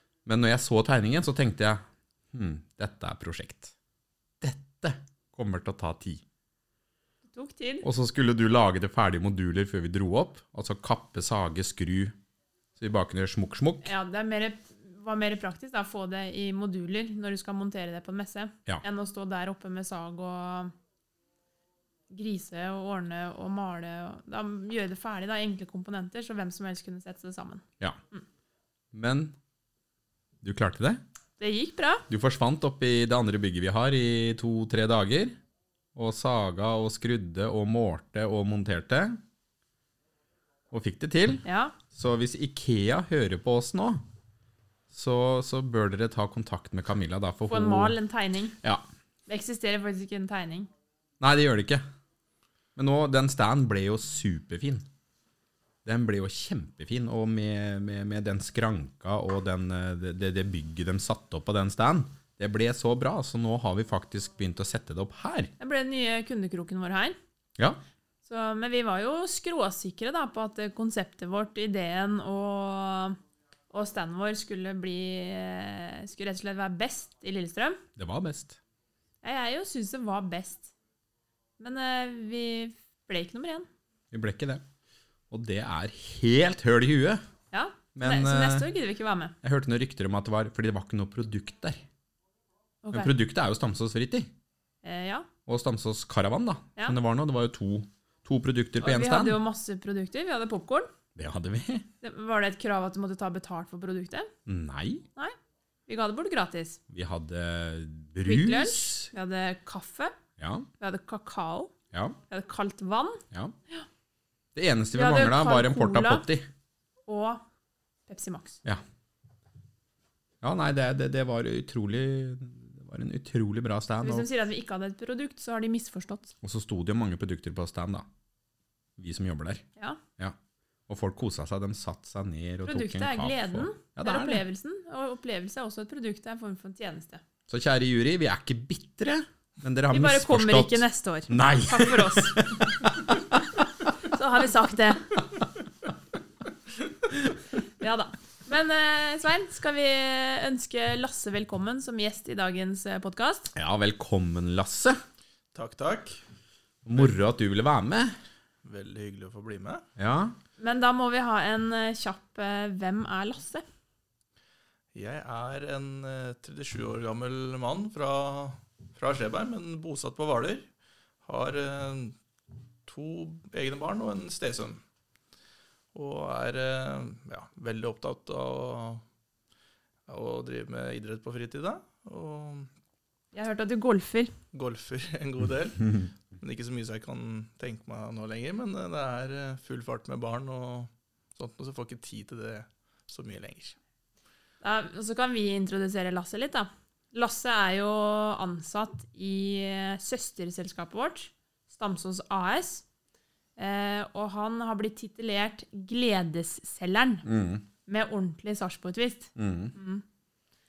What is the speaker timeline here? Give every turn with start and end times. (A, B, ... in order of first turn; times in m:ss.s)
0:00.3-0:03.7 A
0:04.4-0:06.2 A
0:07.3-0:07.9 B
0:07.8-0:12.2 A
0:12.8-0:13.9 A
0:13.8-0:20.7 B
0:22.1-0:28.2 B
0:28.9-0:29.3 A
0:30.4-0:31.0 A
0:31.4-0:32.0 B
0:32.1-0:35.4 A
0:36.0-0:39.2 A
0:40.7-0:44.0 A
0:41.4-0:41.8 B
0:44.9-0:48.0 A
0:47.5-0:48.6 B
0:49.3-0:50.7 B
0:51.2-0:51.8 A
0:52.8-0:54.9 A
0:55.8-1:05.5 A
1:05.6-1:07.2 B
1:08.2-1:13.2 B
1:13.7-1:17.8 B
1:18.0-1:18.6 A
1:19.2-1:20.7 B
1:21.6-1:23.7 B
1:24.1-1:24.6 A
1:25.3-1:27.2 A
1:27.5-1:29.4 B
1:28.0-1:28.7 A
1:29.4-1:31.8 A
1:32.8-1:33.1 B
1:32.9-1:34.3 A
1:34.8-1:35.3 B
1:35.5-1:39.4 A
1:38.8-1:40.9 B
1:41.2-1:41.9 A
1:42.0-1:44.3 B
1:44.5-1:45.0 A
1:45.9-1:46.8 B
1:46.9-1:49.1 A
1:48.2-1:50.1 B
1:50.4-1:50.7 A
1:50.8-1:51.7 B
1:52.3-1:53.9 B
1:54.6-1:56.5 A
1:54.9-1:56.2 B
1:57.1-1:57.4 B
1:58.1-1:58.6 B
2:00.4-2:04.3 A
2:04.0-2:06.3 B
2:06.4-2:08.1 A
2:09.0-2:09.6 A
2:10.9-2:14.4 A
2:12.6-2:17.2 B
2:17.5-2:23.6 A
2:19.9-2:22.4 B
2:24.0-2:25.2 B
2:27.8-2:33.5 B
2:33.6-2:35.0 A
2:35.5-2:36.2 C
2:36.8-2:38.1 A
2:38.6-2:39.8 C
2:40.0-2:40.4 A
2:40.6-2:43.6 B
2:44.9-2:50.7 C
2:51.2-2:52.2 C
2:52.9-2:54.8 C
2:55.9-2:59.0 C
3:00.1-3:02.7 C
3:03.3-3:04.3 B
3:04.5-3:13.8 C
3:14.6-3:22.8 B
3:23.6-3:27.3 B
3:27.2-3:27.6 A
3:27.9-3:30.0 B
3:29.4-3:29.7 A